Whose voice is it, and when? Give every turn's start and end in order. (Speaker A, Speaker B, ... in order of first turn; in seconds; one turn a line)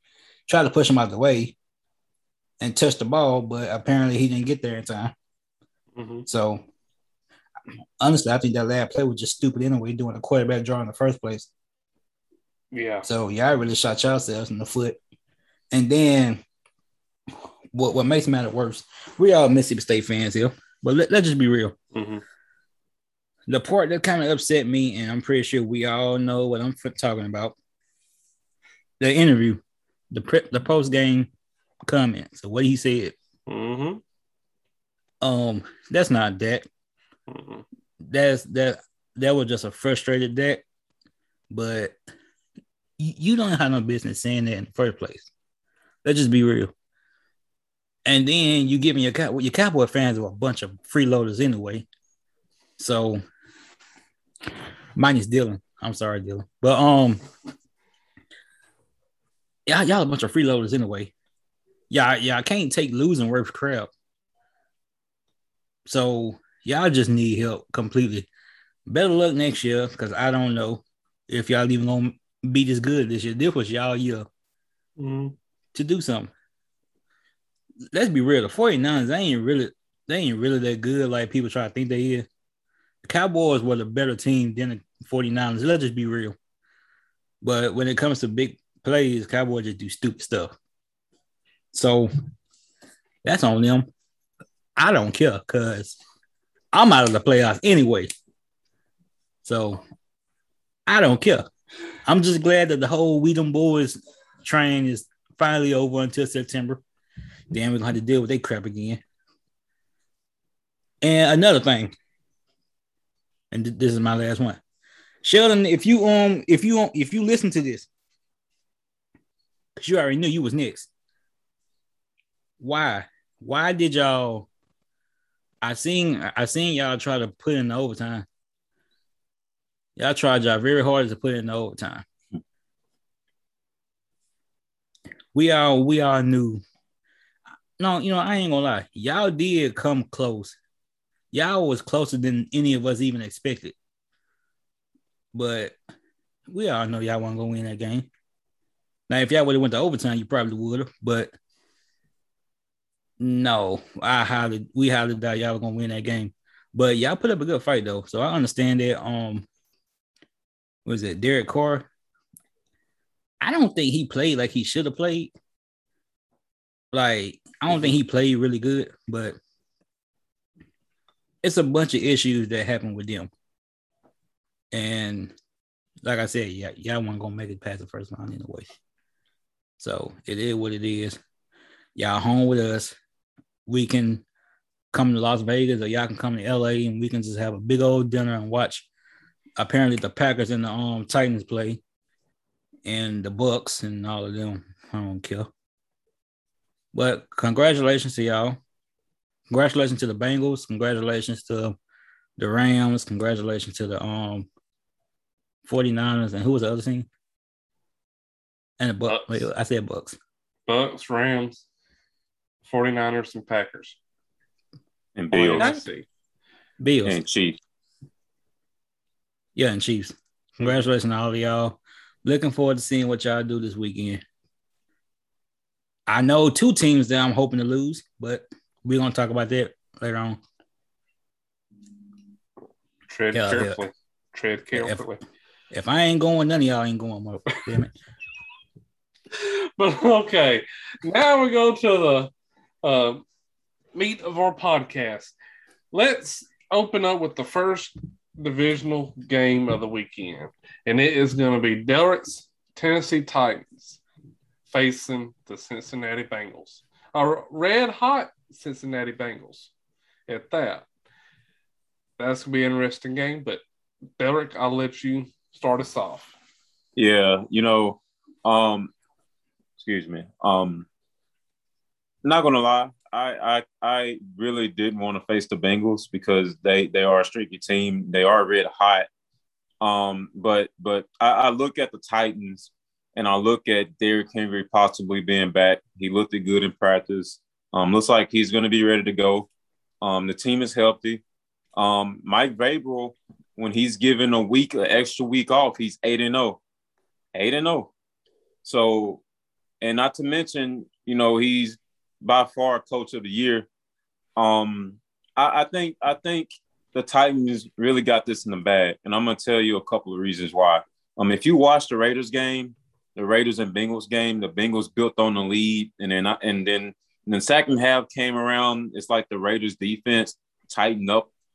Speaker A: 0.5-1.5
Speaker A: 2.6-5.1
Speaker B: 5.9-6.3
Speaker A: 6.3-6.6
Speaker A: 8.0-11.5
Speaker B: 12.7-13.1
Speaker A: 13.0-15.0
Speaker A: 15.7-16.4
Speaker A: 17.7-21.8
Speaker B: 21.9-22.2
Speaker A: 23.5-27.6
Speaker A: 29.0-29.6
Speaker A: 30.1-31.3
Speaker A: 31.9-33.1
Speaker B: 33.5-34.0
Speaker A: 35.2-36.6
Speaker B: 37.3-37.6
Speaker A: 38.0-40.6
Speaker A: 41.5-42.0
Speaker A: 43.0-45.3
Speaker A: 46.0-46.7
Speaker A: 48.0-51.9
Speaker A: 52.8-53.2
Speaker A: 55.0-57.2
Speaker A: 59.6-61.1
Speaker A: 61.9-63.9
Speaker A: 65.8-68.3
Speaker A: 68.9-74.3
Speaker B: 75.0-75.3
Speaker A: 75.7-76.3
Speaker A: 77.9-82.3
Speaker A: 83.0-86.3
Speaker A: 87.4-90.5
Speaker A: 91.7-92.1
Speaker A: 93.2-93.9
Speaker A: 94.8-96.0
Speaker A: 96.7-98.1
Speaker A: 99.4-99.8
Speaker A: 100.9-101.5
Speaker A: 102.0-106.8
Speaker A: 107.5-109.0
Speaker A: 111.0-111.9
Speaker A: 113.5-114.6
Speaker A: 115.2-117.9
Speaker A: 119.8-120.9
Speaker A: 122.6-124.5
Speaker A: 125.6-128.2
Speaker A: 130.0-132.0
Speaker A: 135.3-136.6
Speaker A: 137.8-140.6
Speaker A: 141.3-143.7
Speaker A: 145.3-145.7
Speaker A: 146.5-148.1
Speaker A: 149.1-151.3
Speaker A: 153.2-159.5
Speaker A: 160.8-161.9
Speaker A: 163.4-165.3
Speaker A: 166.9-169.4
Speaker A: 171.4-173.3
Speaker A: 174.7-175.3
Speaker A: 176.0-178.7
Speaker A: 179.8-181.2
Speaker A: 181.9-182.9
Speaker A: 183.7-184.2
Speaker A: 184.9-188.9
Speaker A: 189.6-191.8
Speaker A: 192.8-195.5
Speaker A: 196.9-198.6
Speaker A: 199.5-201.8
Speaker A: 202.4-204.5
Speaker A: 205.7-207.1
Speaker A: 208.8-210.2
Speaker B: 209.1-209.5
Speaker B: 210.7-211.7
Speaker B: 212.6-214.0
Speaker C: 215.2-215.7
Speaker B: 215.3-216.1
Speaker A: 215.6-215.8
Speaker A: 216.8-217.2
Speaker C: 217.0-217.6
Speaker A: 219.5-224.2
Speaker A: 226.1-230.4
Speaker B: 233.1-235.2
Speaker A: 233.3-233.8
Speaker A: 234.7-235.0
Speaker A: 235.7-237.9
Speaker B: 239.3-242.3
Speaker B: 242.8-243.2
Speaker B: 243.9-245.3
Speaker B: 245.9-254.0
Speaker B: 254.7-259.7
Speaker B: 260.3-260.9
Speaker B: 262.2-263.6
Speaker B: 264.2-266.3
Speaker C: 266.9-268.9
Speaker C: 269.8-270.9
Speaker C: 272.2-279.1
Speaker C: 279.8-289.5
Speaker C: 290.0-291.2
Speaker C: 291.8-296.6
Speaker C: 297.3-297.9
Speaker C: 298.6-299.2
Speaker C: 299.8-303.7
Speaker C: 304.4-321.3